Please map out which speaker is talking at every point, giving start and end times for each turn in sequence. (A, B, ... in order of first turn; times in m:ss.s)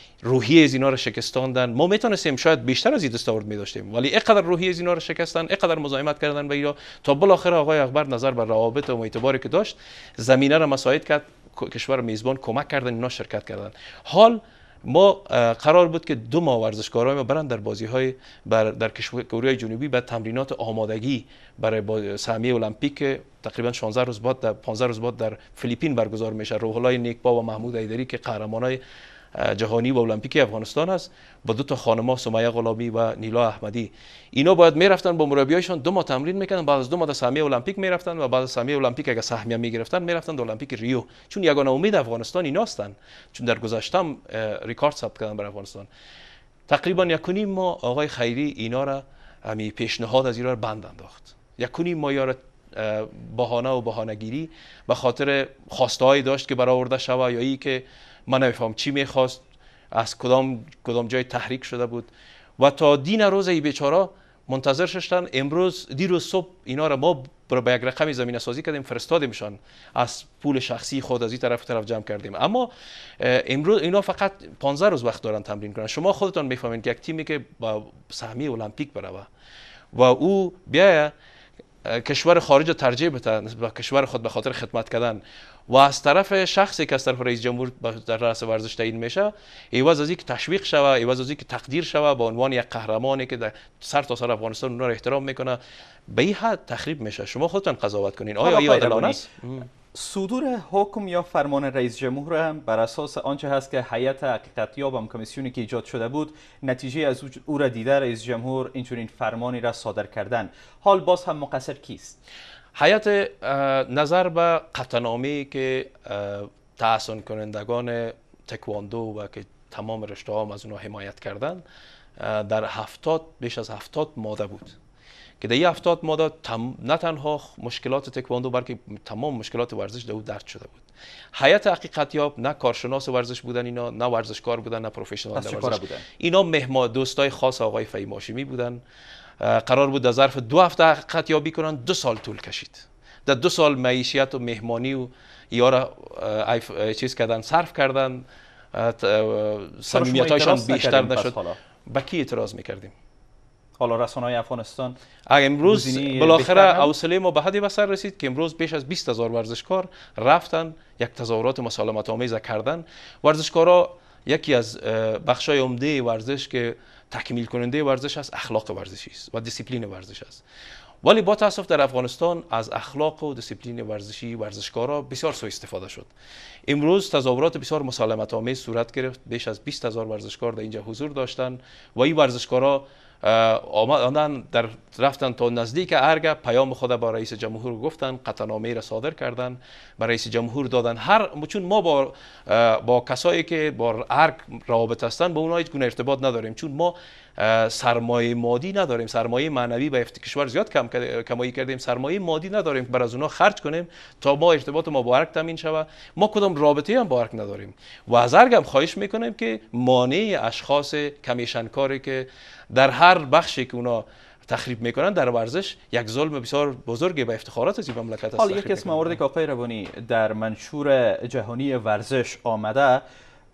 0:00.2-0:28.8 A
0:29.3-0:45.9 A
0:46.7-1:19.3 A
1:19.9-1:21.1 A
1:21.8-1:39.7 A
1:38.4-1:39.3 B
1:39.9-1:52.2 B
1:52.7-2:01.6 A
2:02.2-2:04.8 A
2:05.4-2:10.8 A
2:11.4-2:18.8 A
2:15.3-2:16.1 B
2:19.4-2:32.9 A
2:29.9-2:31.6 B
2:33.8-2:35.0 B
2:35.3-2:50.4 A
2:35.7-2:36.9 B
2:51.0-2:56.1 A
2:56.7-3:39.2 A
3:38.4-3:43.0 B